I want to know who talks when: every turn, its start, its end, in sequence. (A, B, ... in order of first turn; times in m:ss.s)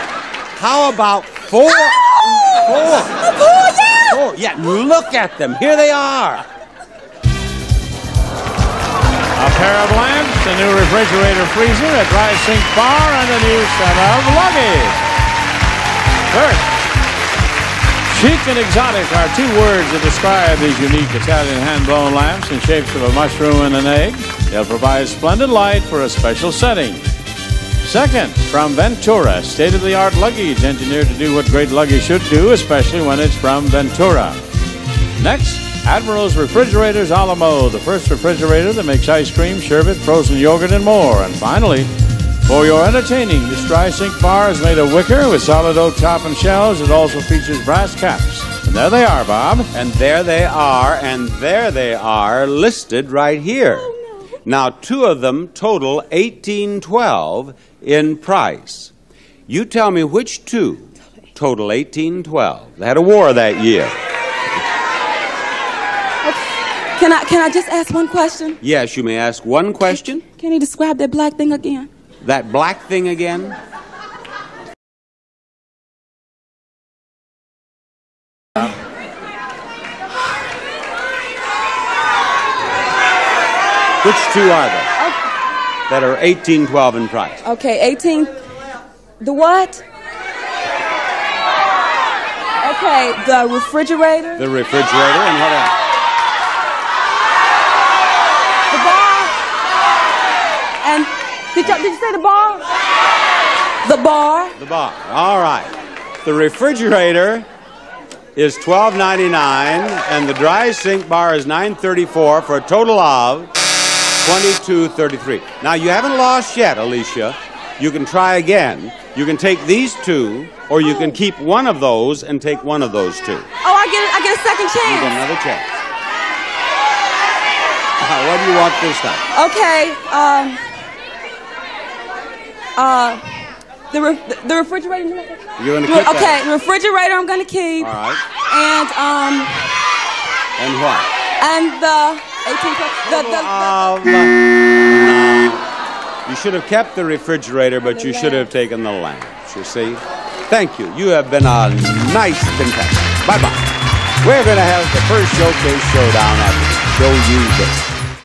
0:00.6-0:03.2 A
0:01.8-0:04.2 B
0:04.0-0:06.4 A
0:09.4-0:15.0 C
0:16.3-0:16.8 C
0:18.1-0:27.0 C
0:27.8-0:34.4 C
0:35.2-0:41.9 C
0:42.4-0:49.7 C
0:49.7-0:58.9 A
0:59.5-1:03.9 A
1:06.2-1:08.6 B
1:08.6-1:10.2 A
1:09.9-1:11.9 B
1:12.2-1:13.6 A
1:24.0-1:24.9 A
1:25.9-1:27.4 A
1:27.4-1:28.4 B
1:29.2-1:29.8 B
1:32.6-1:34.4 B
1:34.4-1:35.7 A
1:38.7-1:39.4 B
1:40.8-1:42.6 B
1:43.8-1:44.6 B
1:44.6-1:45.7 A
1:46.2-1:47.4 A
1:48.4-1:53.5 A
1:54.1-2:03.5 A
2:03.6-2:05.2 B
2:04.8-2:05.6 A
2:08.0-2:09.2 A
2:09.3-2:10.6 B
2:12.8-2:19.7 B
2:15.6-2:16.4 A
2:17.8-2:18.2 A
2:20.6-2:21.1 A
2:21.4-2:23.8 B
2:23.0-2:25.6 A
2:26.2-2:37.9 A
2:27.8-2:28.5 B